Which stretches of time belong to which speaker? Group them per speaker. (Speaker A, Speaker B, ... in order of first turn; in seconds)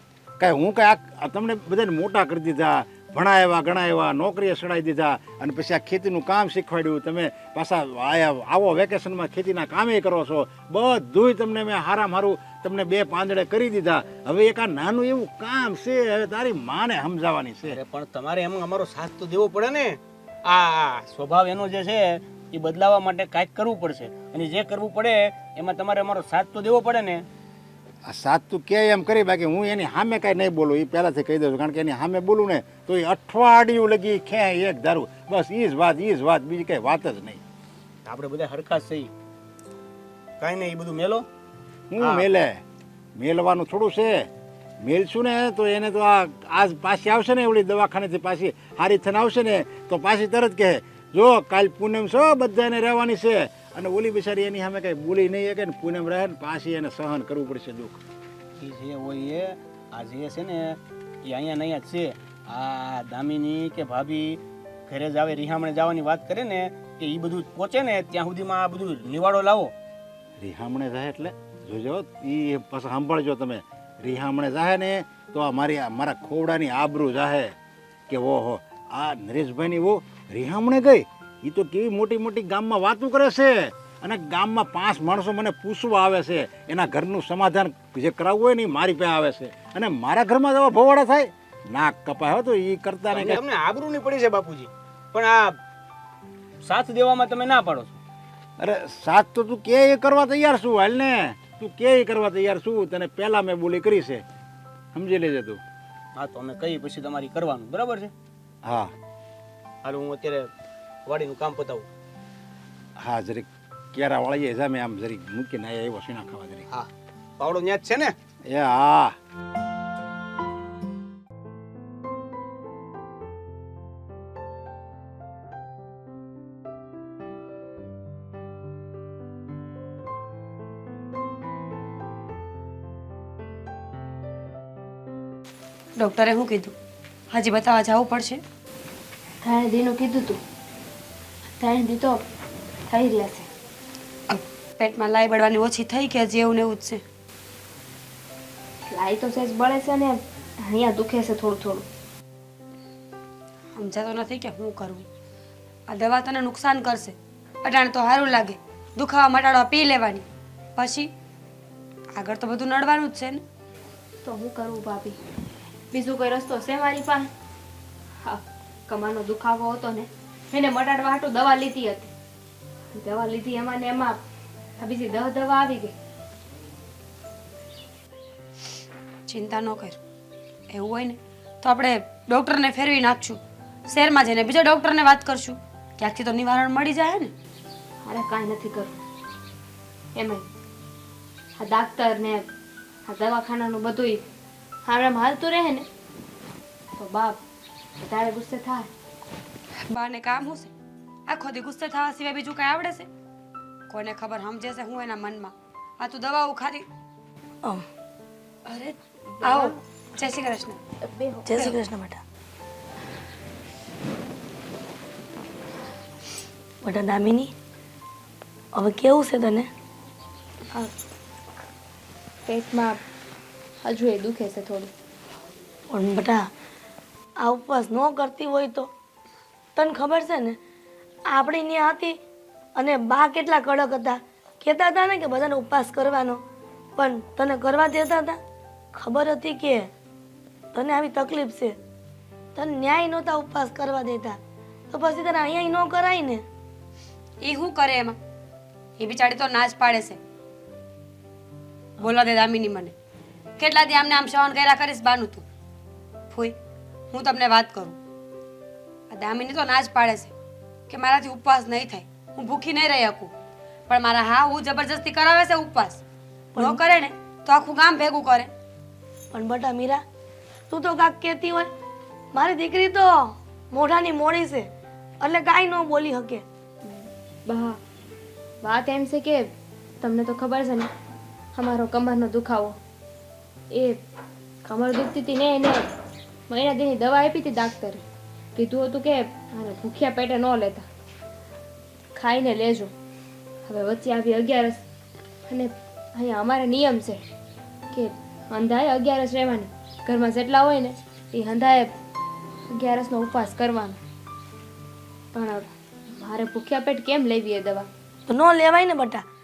Speaker A: 0.4-17.8, 28.1-37.4, 41.9-42.6, 43.2-44.3, 44.8-58.0, 70.4-77.5, 78.1-93.4, 98.6-104.2, 105.0-105.6, 108.6-108.9, 113.0-116.7, 118.5-119.2
Speaker B: 17.6-27.3, 38.0-39.1, 40.4-41.3, 42.0-42.2, 58.6-69.7, 93.1-95.6, 96.6-98.0, 106.1-108.1, 109.8-110.5, 111.1-111.9, 116.7-118.1
Speaker C: 136.0-136.8, 137.3-138.4, 144.3-147.0, 153.8-155.1, 155.9-161.1, 162.2-163.4, 179.3-180.0, 180.7-187.3, 199.9-200.7, 201.3-203.1, 203.9-206.9, 208.8-210.8, 247.4-248.2, 249.0-250.2, 252.0-252.9, 253.6-255.4, 256.3-256.6, 257.1-258.0, 259.1-260.3, 260.9-263.3, 263.9-266.0, 266.6-268.5
Speaker D: 139.4-140.4, 141.6-142.2, 142.9-143.5, 148.9-151.9, 164.2-165.2, 165.9-167.3, 168.2-172.1, 172.9-174.2, 174.8-175.9, 188.0-189.0, 190.2-190.5, 191.6-192.5, 193.1-194.2, 194.8-195.9, 197.0-197.4, 198.0-198.9, 208.7-209.8, 211.0-211.5, 222.4-223.0, 223.8-224.9, 276.9-277.8, 278.6-280.9, 281.6-282.8, 283.7-284.0, 284.6-285.9, 286.5-288.0, 288.6-290.9, 292.1-292.9, 293.7-294.8, 295.5-297.2, 297.9-301.9, 302.7-304.0, 305.3-307.9
Speaker E: 211.5-212.2, 216.8-217.5, 218.7-219.7, 225.9-226.5, 227.4-228.9, 229.8-230.6, 231.3-232.2, 232.8-236.4, 237.0-238.4, 238.9-239.9, 240.7-241.8, 242.6-244.4, 244.9-246.4, 266.6-266.8, 269.3-270.0, 270.7-271.7, 272.3-274.7, 275.2-276.4, 308.3-309.2